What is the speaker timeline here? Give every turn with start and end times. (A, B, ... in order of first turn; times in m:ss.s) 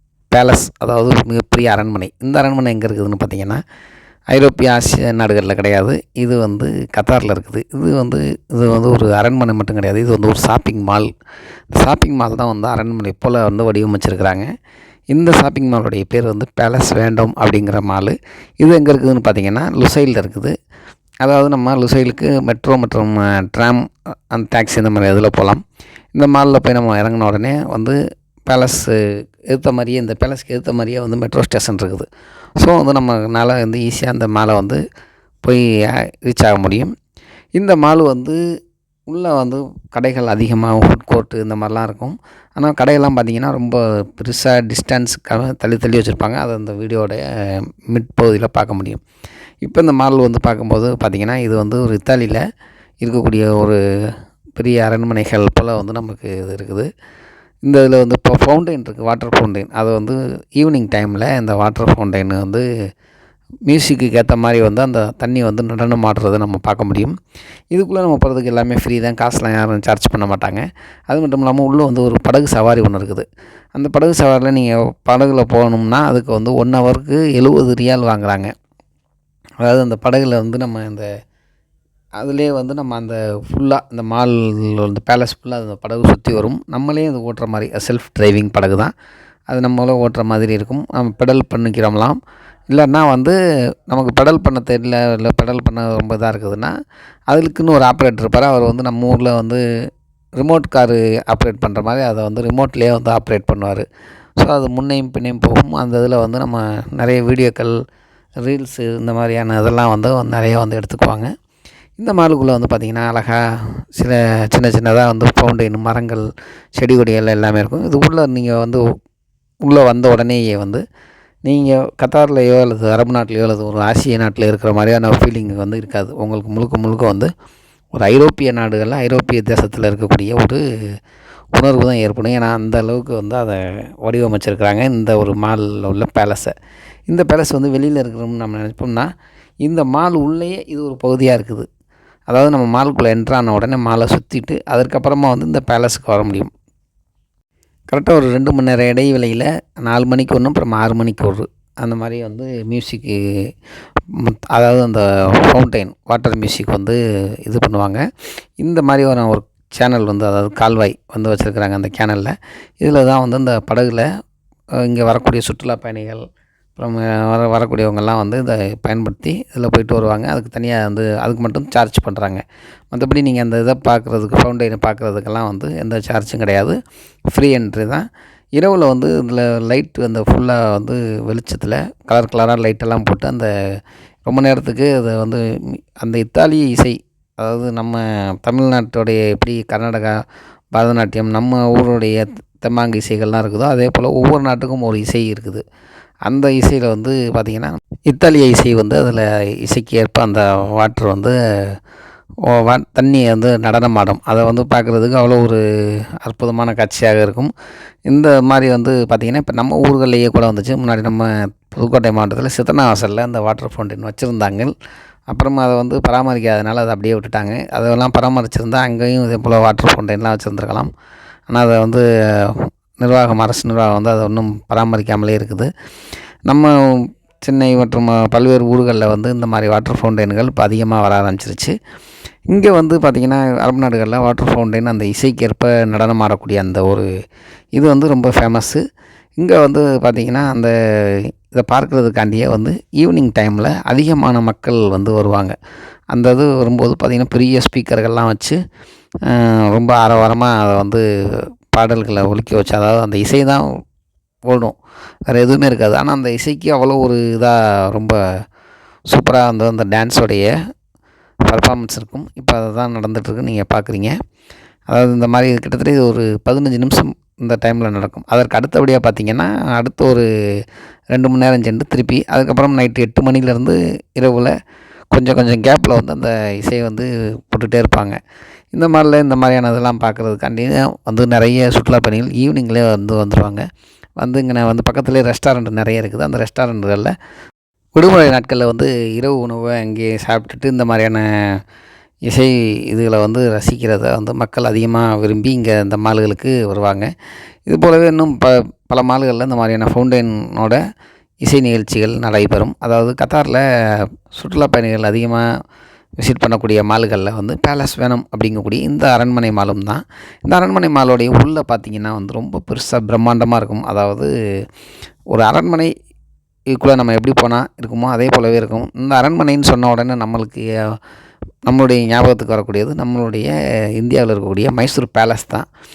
0:00.3-0:03.6 A
0:04.3-0:11.1 A
0:11.7-0:14.5 A
0:15.1-0:20.5 A
0:21.2-0:25.6 A
0:26.1-0:29.0 A
0:29.5-0:32.1 A
0:32.6-0:34.8 A
0:35.4-0:36.9 A
0:37.6-0:38.4 A
0:39.1-0:49.0 A
0:49.6-0:52.4 A
0:53.0-0:53.8 A
0:54.6-0:56.9 A
0:57.6-1:02.6 A
1:03.7-1:07.1 A
1:07.7-1:18.5 A
1:19.6-1:21.1 A
1:22.2-1:28.9 A
1:29.5-1:32.2 A
1:32.7-1:33.4 A
1:33.9-1:36.7 A
1:37.3-1:39.6 A
1:40.4-1:43.8 A
1:44.4-1:47.7 A
1:48.4-1:51.3 A
1:52.0-1:53.4 A
1:53.9-1:58.8 A
1:59.6-2:00.8 A
2:01.4-2:07.3 A
2:07.9-2:10.6 A
2:11.5-2:16.5 A
2:17.1-2:19.1 A
2:19.6-2:21.7 A
2:22.3-2:26.5 A
2:27.9-2:33.5 A
2:34.1-2:38.0 A
2:38.6-2:44.0 A
2:44.8-2:46.2 A
2:46.8-2:56.8 A
2:57.3-2:58.0 A
2:58.6-3:03.5 A
3:04.3-3:05.4 A
3:06.0-3:10.2 A
3:10.7-3:15.6 A
3:16.3-3:21.8 A
3:22.4-3:25.6 A
3:26.2-3:27.5 A
3:28.1-3:34.7 A
3:35.3-3:40.9 A
3:41.5-3:45.7 A
3:46.5-3:51.7 A
3:52.5-3:57.0 A
3:57.8-3:58.8 A
3:59.4-4:05.5 A
4:06.1-4:08.6 A
4:09.2-4:13.6 A
4:14.5-4:14.7 A
4:15.3-4:18.2 A
4:19.1-4:20.5 A
4:21.5-4:24.1 A
4:24.9-4:30.2 A
4:31.1-4:34.5 A
4:35.1-4:38.2 A
4:38.7-4:43.6 A
4:44.2-4:47.1 A
4:48.0-4:51.6 A
4:52.3-4:57.1 A
4:57.7-5:00.8 A
5:01.4-5:05.4 A
5:06.2-5:14.3 A
5:15.3-5:15.9 A
5:16.7-5:21.0 A
5:21.6-5:25.7 A